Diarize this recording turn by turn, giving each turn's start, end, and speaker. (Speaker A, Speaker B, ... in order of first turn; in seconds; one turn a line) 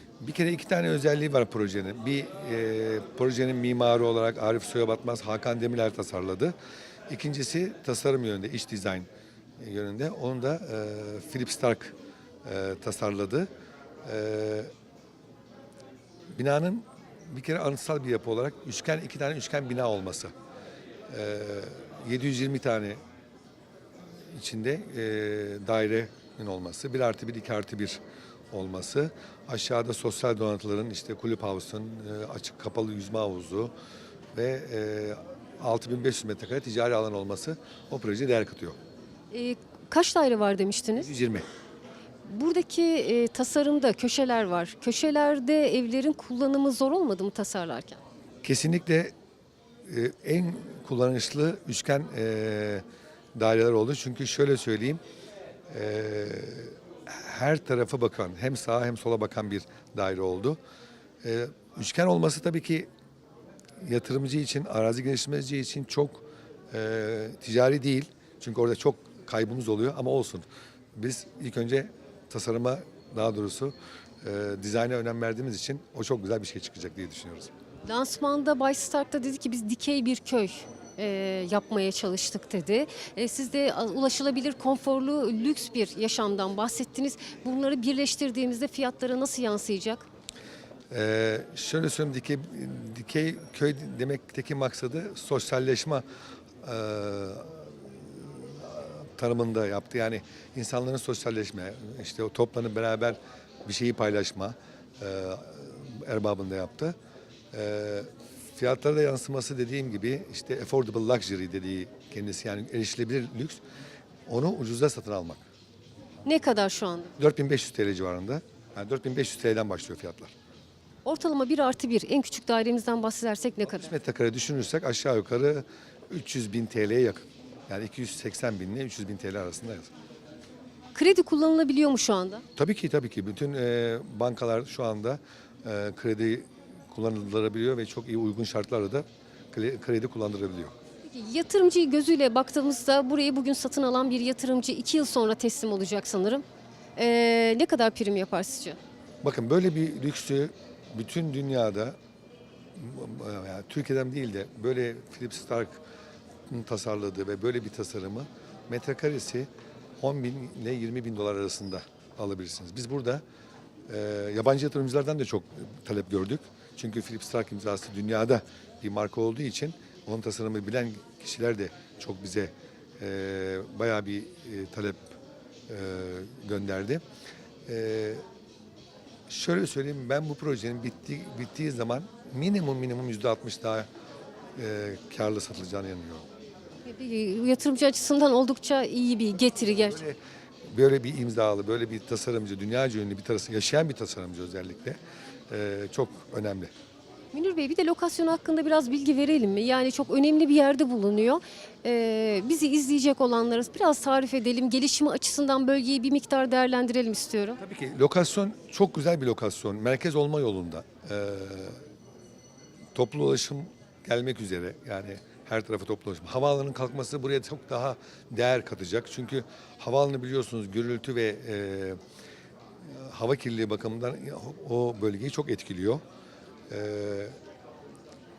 Speaker A: 0.2-6.5
Speaker A: 7.1-9.1
Speaker A: 9.6-13.5
Speaker A: 14.0-14.7
Speaker A: 16.4-20.3
Speaker A: 21.1-23.0
Speaker A: 24.3-28.0
Speaker A: 28.5-33.7
Speaker A: 34.3-38.8
Speaker B: 39.3-41.1
Speaker A: 41.0-41.5
Speaker B: 42.2-48.0
Speaker A: 48.4-49.1
Speaker A: 49.9-52.8
Speaker A: 53.4-55.0
Speaker A: 55.7-60.6
Speaker A: 61.2-62.9
Speaker A: 63.8-70.4
Speaker A: 71.0-77.5
Speaker B: 77.8-90.1
Speaker A: 90.9-96.0
Speaker A: 96.6-107.0
Speaker A: 107.5-113.6
Speaker A: 114.3-115.4
Speaker B: 116.2-117.1
Speaker A: 117.2-120.3
Speaker B: 121.0-123.9
Speaker A: 123.7-129.9
Speaker B: 130.9-132.4
Speaker A: 132.6-140.7
Speaker B: 141.1-146.4
Speaker B: 146.9-148.8
Speaker A: 149.2-152.0
Speaker A: 152.7-155.8
Speaker A: 156.5-159.5
Speaker A: 160.0-163.2
Speaker A: 163.9-175.2
Speaker A: 175.7-177.0
Speaker A: 177.7-178.2
Speaker A: 179.3-183.9
Speaker A: 184.6-186.3
Speaker B: 186.8-190.0
Speaker A: 189.6-195.0
Speaker A: 195.5-196.7
Speaker B: 197.3-207.6
Speaker A: 207.6-211.8
Speaker A: 212.9-222.0
Speaker A: 222.8-226.0
Speaker A: 226.7-227.3